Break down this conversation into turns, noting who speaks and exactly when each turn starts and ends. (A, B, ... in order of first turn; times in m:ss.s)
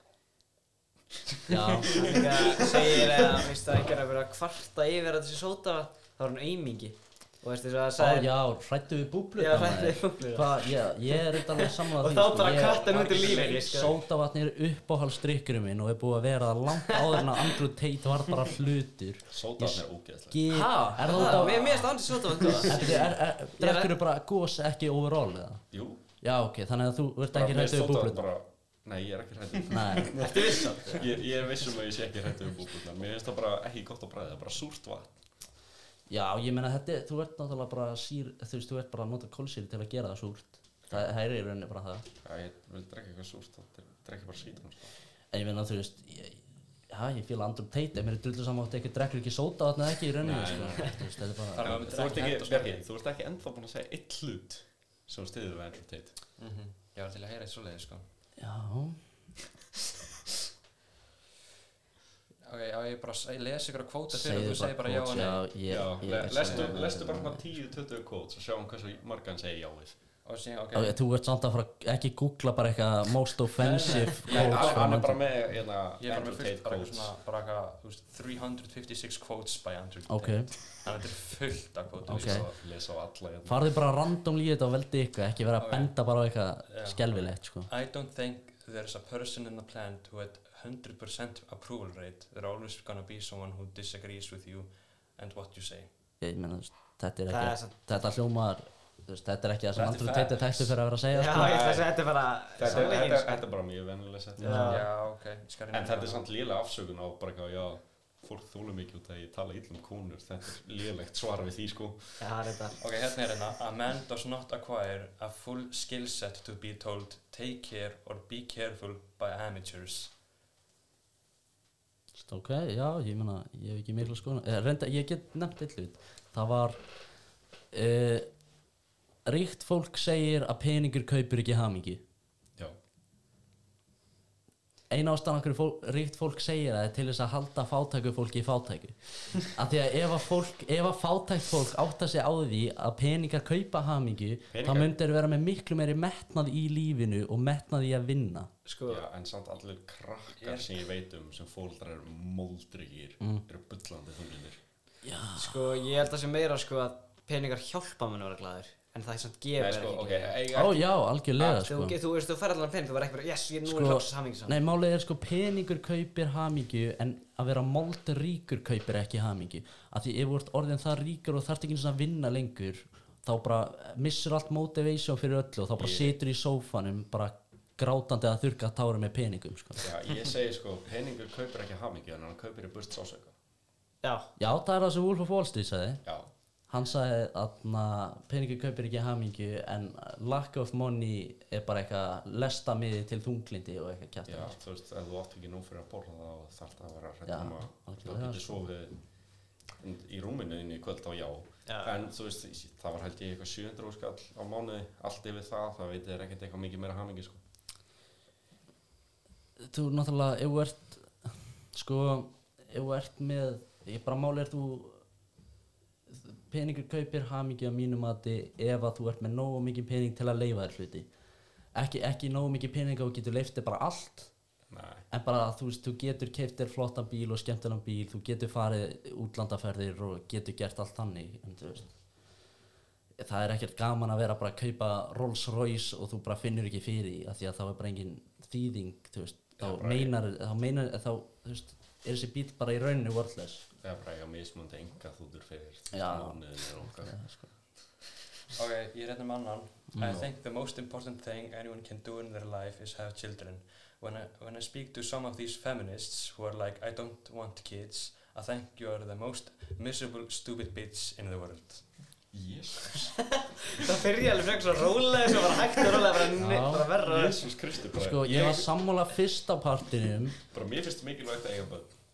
0:01.5-0:02.1 A
0:01.8-0:08.3 B
0:02.6-0:02.9 C
0:08.0-0:25.6 A
0:09.4-0:14.0 B
0:12.7-0:13.6 D
0:16.9-0:17.5 B
0:19.3-0:20.5 C
0:20.5-0:23.9 B
0:21.4-0:21.9 D
0:25.7-0:26.0 C
0:26.2-0:28.3 A
0:27.3-0:35.2 C
0:29.7-0:30.3 A
0:30.1-0:31.2 B
0:36.1-0:42.1 A
0:42.2-0:45.0 C
0:45.3-0:51.8 A
0:50.2-0:51.0 C
0:51.5-0:52.8 D
0:51.6-0:56.1 C
0:56.4-0:58.1 D
0:58.4-0:59.0 A
1:02.4-1:05.5 D
1:04.1-1:07.4 A
1:05.7-1:10.0 C
1:06.4-1:06.8 D
1:10.2-1:11.0 D
1:10.7-1:15.2 A
1:13.6-1:14.9 D
1:14.3-1:17.1 C
1:16.0-1:22.5 D
1:20.1-1:20.5 A
1:22.1-1:22.5 A
1:22.1-1:23.6 C
1:23.5-1:27.7 A
1:25.6-1:25.9 D
1:26.7-1:35.9 D
1:36.2-1:41.6 A
1:37.3-1:37.7 B
1:39.8-1:40.8 D
1:41.1-1:43.4 B
1:41.4-1:42.0 C
1:42.6-1:44.7 C
1:42.6-1:42.9 D
1:44.4-1:44.8 A
1:44.4-1:44.8 B
1:44.6-1:46.2 D
1:45.7-1:52.3 C
1:52.2-1:52.8 B
1:52.8-2:00.1 D
2:02.2-2:06.8 A
2:07.7-2:08.3 A
2:09.2-2:12.0 A
2:14.9-2:28.5 A
2:24.5-2:24.9 C
2:28.7-2:29.0 B
2:28.9-2:34.6 C
2:30.4-2:30.7 D
2:35.0-2:35.6 A
2:35.4-2:40.4 B
2:39.6-2:41.7 C
2:40.5-2:42.0 A
2:41.5-2:44.6 B
2:43.6-2:59.9 A
2:55.8-2:56.2 C
2:59.8-3:03.3 C
3:04.0-3:04.3 B
3:04.4-3:06.0 A
3:06.0-3:06.3 C
3:06.7-3:14.6 A
3:14.3-3:19.0 C
3:17.3-3:18.6 A
3:19.8-3:27.4 C
3:21.7-3:22.1 B
3:29.6-3:35.0 A
3:36.1-3:41.1 A
3:41.8-3:44.3 A
3:44.7-3:45.0 C
3:45.1-3:51.9 A
3:53.2-4:03.6 A
3:59.6-4:00.1 C
4:03.8-4:07.1 C
4:05.9-4:07.5 A
4:08.5-4:21.9 D
4:09.9-4:10.2 A
4:10.0-4:10.3 C
4:22.3-4:23.2 C
4:23.4-4:27.5 B
4:26.3-4:26.9 A
4:27.0-4:28.7 C
4:28.0-4:30.4 A
4:30.5-4:31.9 C